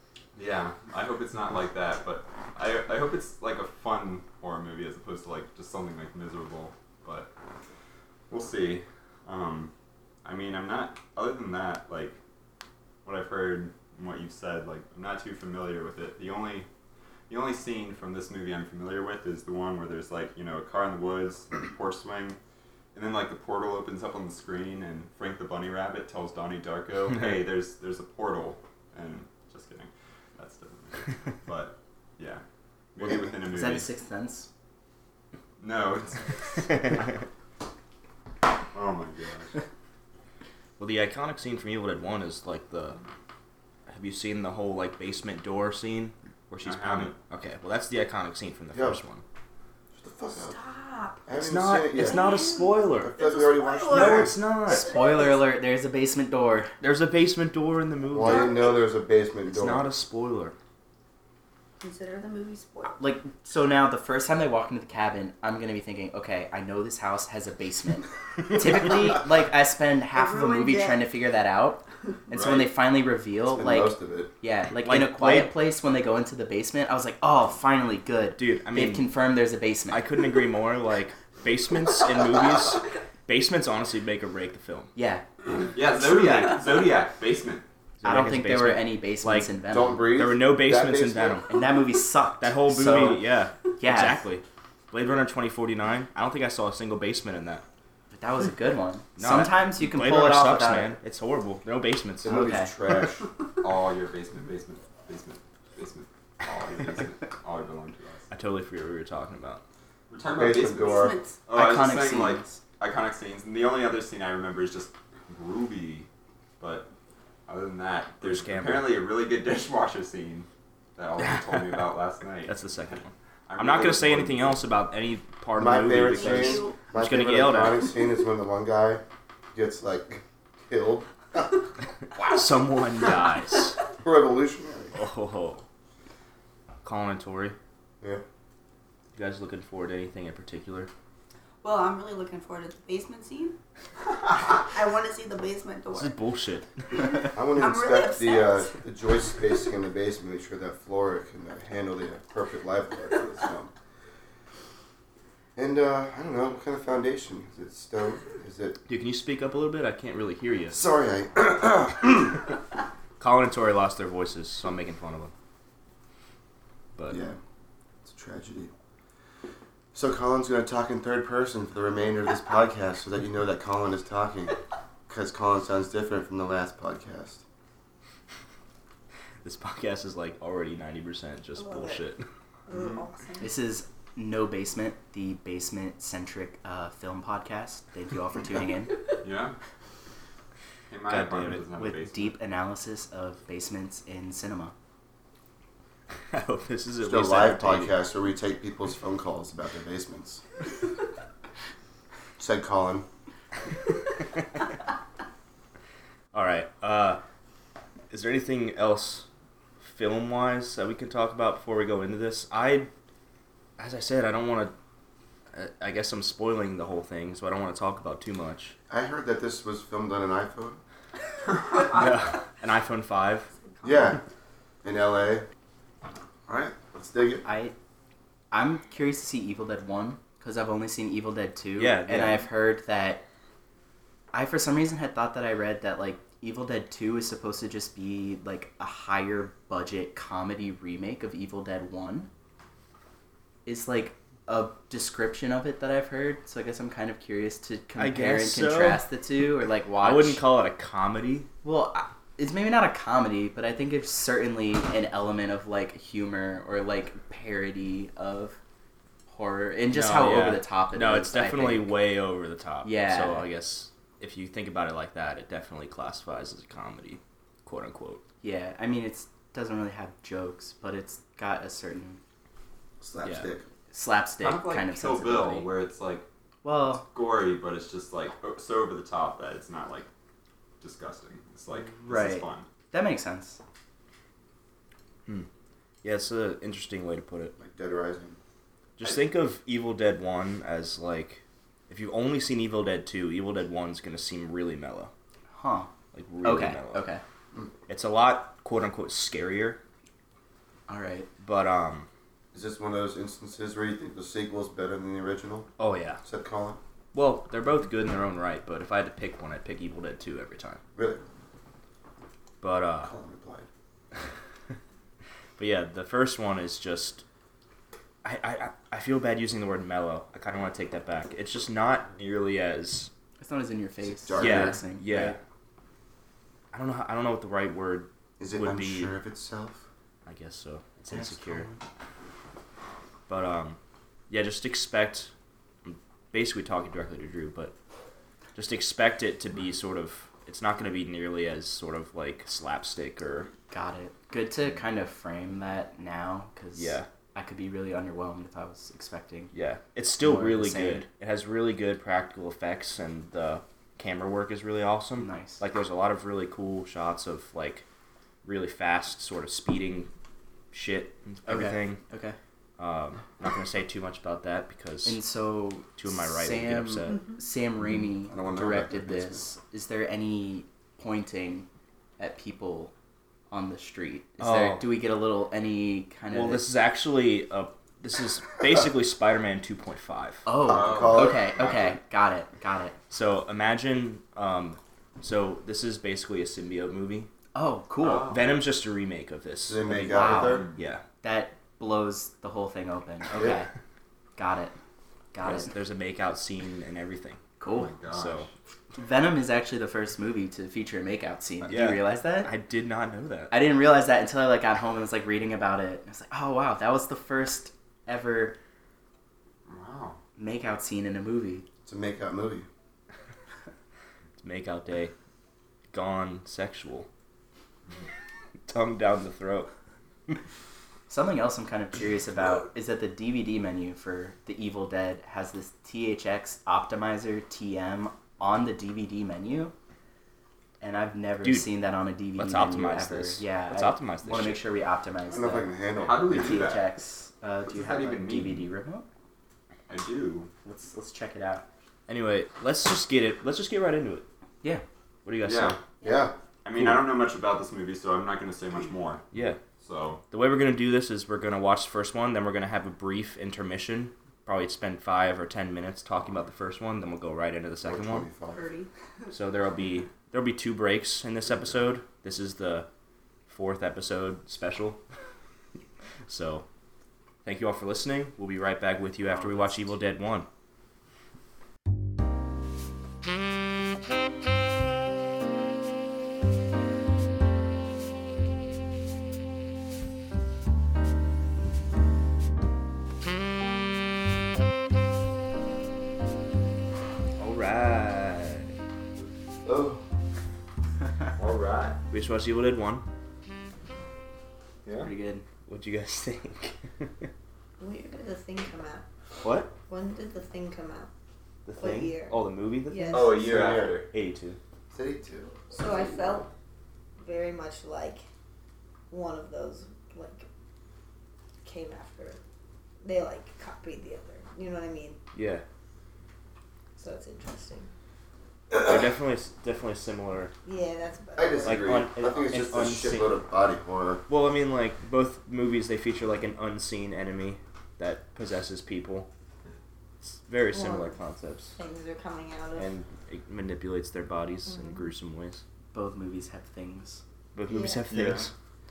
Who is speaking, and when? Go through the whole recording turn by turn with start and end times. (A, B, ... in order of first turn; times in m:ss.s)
0:00.3-0:07.3 A
0:08.3-0:09.7 A
0:10.2-0:12.2 A
0:13.0-0:16.7 A
0:17.3-0:22.4 A
0:22.9-0:32.4 A
0:32.9-0:33.9 A
0:33.0-0:33.3 B
0:33.2-0:34.5 C
0:35.6-0:37.2 A
0:38.7-0:39.6 A
0:40.8-0:43.0 D
0:43.9-0:49.2 D
0:46.6-0:47.1 A
0:48.7-0:49.0 B
0:49.9-0:50.6 B
0:50.3-0:51.3 E
0:51.3-0:54.4 B
0:51.3-0:53.2 D
0:52.0-0:55.4 E
0:53.9-0:55.0 D
0:54.6-0:56.7 C
0:56.8-0:58.6 D
0:58.1-0:59.9 B
0:58.2-0:58.8 E
0:59.4-1:00.5 D
1:01.8-1:03.0 E
1:03.0-1:20.1 C
1:10.1-1:11.0 E
1:12.3-1:12.7 A
1:13.5-1:14.3 B
1:14.8-1:15.5 D
1:18.4-1:19.1 D
1:19.9-1:24.9 D
1:24.9-1:26.9 C
1:25.7-1:27.6 A
1:28.0-1:29.6 D
1:28.0-1:30.0 C
1:29.7-1:31.4 B
1:30.1-1:31.5 D
1:31.5-1:33.2 C
1:32.4-1:37.6 D
1:33.8-1:34.2 C
1:38.1-1:41.0 C
1:39.2-1:42.4 D
1:42.2-1:43.2 B
1:42.3-1:42.7 C
1:43.6-1:48.3 A
1:48.3-1:49.6 D
1:50.1-1:56.1 A
1:50.3-1:51.2 B
1:50.8-1:51.4 E
1:51.5-1:52.6 C
1:56.6-1:56.9 A
1:57.5-2:02.6 A
1:58.2-1:59.0 D
2:01.2-2:01.9 D
2:02.4-2:07.8 D
2:03.5-2:04.6 A
2:05.5-2:09.0 B
2:06.1-2:06.8 E
2:09.5-2:11.7 B
2:12.2-2:13.8 D
2:14.0-2:15.0 B
2:14.9-2:15.6 D
2:16.8-2:17.6 D
2:19.1-2:20.9 D
2:21.6-2:23.6 E
2:24.4-2:26.2 E
2:25.9-2:27.3 D
2:27.3-2:33.7 B
2:27.6-2:28.8 E
2:35.6-2:38.8 B
2:38.8-2:40.8 D
2:40.7-2:42.4 B
2:43.2-2:45.3 D
2:47.0-2:47.2 D
2:47.1-2:47.4 B
2:48.0-2:48.7 B
2:49.9-2:57.4 B
2:59.4-3:02.2 D
3:01.6-3:02.0 E
3:02.7-3:03.5 E
3:02.7-3:03.0 A
3:03.4-3:09.0 C
3:09.2-3:09.6 A
3:10.9-3:12.4 A
3:11.1-3:11.6 D
3:11.7-3:14.7 C
3:16.3-3:18.0 D
3:17.0-3:20.4 B
3:22.4-3:23.1 B
3:26.3-3:27.2 D
3:28.1-3:29.2 D
3:29.8-3:32.9 D
3:33.8-3:34.7 D
3:35.5-3:38.8 D
3:38.9-3:40.8 B
3:41.8-3:43.5 D
3:43.8-3:44.2 B
3:44.8-3:45.4 B
3:46.5-3:47.4 B
3:47.4-3:47.7 C
3:48.5-3:53.2 C
3:51.8-3:52.5 D
3:54.3-4:02.3 C
4:03.6-4:10.4 C
4:08.0-4:09.0 D
4:10.0-4:11.5 D
4:11.6-4:18.6 C
4:19.3-4:22.0 C
4:19.9-4:28.2 D
4:22.8-4:23.5 C
4:28.4-4:32.2 C
4:33.0-4:33.7 B
4:33.2-4:33.5 D
4:33.9-4:35.7 C
4:34.4-4:36.3 A
4:36.6-4:37.0 C
4:36.9-4:40.1 A
4:40.8-4:42.7 A
4:42.0-4:43.6 C
4:46.0-4:47.5 D
4:47.6-4:48.4 B
4:49.0-4:55.1 D
4:55.5-4:57.2 C
4:56.1-4:57.1 D
4:57.9-4:59.8 D
5:00.9-5:01.3 C
5:01.4-5:02.1 D
5:02.5-5:06.8 B
5:05.8-5:06.2 D
5:07.1-5:10.8 D
5:10.9-5:11.2 B
5:12.6-5:13.1 D
5:13.0-5:13.7 B
5:15.6-5:17.2 D
5:18.2-5:23.1 D
5:23.4-5:25.4 C
5:24.0-5:24.8 B
5:24.3-5:25.4 D
5:26.7-5:29.1 D
5:28.4-5:29.8 B
5:30.2-5:31.7 D
5:31.2-5:31.7 B
5:33.3-5:33.8 D
5:34.3-5:35.3 D
5:35.8-5:37.7 D
5:38.5-5:43.5 D
5:43.7-5:49.5 C
5:46.7-5:47.1 D
5:49.5-5:57.8 D
5:50.2-5:51.0 C
5:55.2-5:55.6 C
5:58.4-6:00.1 D
6:00.7-6:02.0 D
6:01.4-6:02.4 C
6:02.8-6:05.2 D
6:05.0-6:11.7 C
6:06.0-6:07.2 D
6:08.3-6:09.5 B
6:12.2-6:12.9 C
6:13.5-6:16.6 C
6:14.4-6:14.9 D
6:16.3-6:20.5 D
6:20.4-6:23.0 C
6:20.6-6:21.6 B
6:20.6-6:21.9 A
6:23.1-6:27.3 D
6:27.5-6:28.4 C
6:28.0-6:28.6 A
6:28.3-6:31.0 D
6:29.6-6:30.7 B
6:30.1-6:33.7 C
6:30.3-6:30.8 A
6:34.4-6:34.7 C
6:35.3-6:35.7 C
6:35.4-6:37.4 D
6:37.6-6:37.9 C
6:37.7-6:38.5 A
6:38.0-6:38.5 D
6:39.0-6:42.5 C
6:41.6-6:43.5 D
6:43.5-6:48.6 C
6:49.6-6:50.2 A
6:50.4-6:51.6 C
6:51.8-6:52.7 B
6:54.4-6:55.1 D
6:55.9-6:57.1 D
6:58.7-6:59.7 D
7:01.1-7:09.7 C
7:10.8-7:19.1 C
7:11.4-7:11.7 D
7:12.4-7:14.6 D
7:15.3-7:16.7 B
7:16.0-7:16.9 A
7:17.7-7:18.7 A
7:19.9-7:20.5 A
7:20.6-7:21.6 C
7:22.1-7:24.2 D
7:25.2-7:25.8 D
7:25.4-7:25.8 A
7:26.0-7:26.3 B
7:26.6-7:29.2 A
7:26.7-7:27.0 D
7:29.3-7:29.6 D
7:29.8-7:30.2 A
7:30.3-7:38.3 D
7:37.8-7:38.6 B
7:38.5-7:38.9 E
7:39.3-7:42.9 D
7:43.5-7:45.0 D
7:46.3-7:46.6 D
7:47.4-7:50.5 D
7:49.2-7:50.0 C
8:07.4-8:08.7 D
8:09.6-8:10.0 B
8:11.4-8:12.0 A
8:12.1-8:13.0 D
8:14.8-8:15.1 A
8:14.9-8:15.4 C
8:15.6-8:17.3 D
8:17.8-8:19.0 E
8:19.4-8:19.7 D
8:19.9-8:21.1 E
8:21.6-8:24.6 D
8:21.8-8:23.4 E
8:23.1-8:24.1 A
8:23.4-8:24.0 B
8:24.9-8:26.5 B
8:25.7-8:26.5 E
8:27.2-8:28.2 E
8:29.1-8:30.5 E
8:31.6-8:32.4 E
8:33.0-8:35.2 E
8:35.3-8:35.6 D
8:37.0-8:37.9 E
8:38.7-8:39.0 B
8:38.7-8:40.5 D
8:40.6-8:42.0 E
8:41.4-8:44.2 B
8:41.6-8:43.3 D
8:44.3-8:49.3 D
8:50.2-8:51.8 D
8:50.7-8:51.2 E
8:51.8-8:52.9 E
8:52.7-8:55.6 D
8:54.7-8:55.1 E
8:55.9-8:57.2 C
8:57.5-8:58.5 D
8:57.7-8:58.1 E
8:58.1-8:58.5 A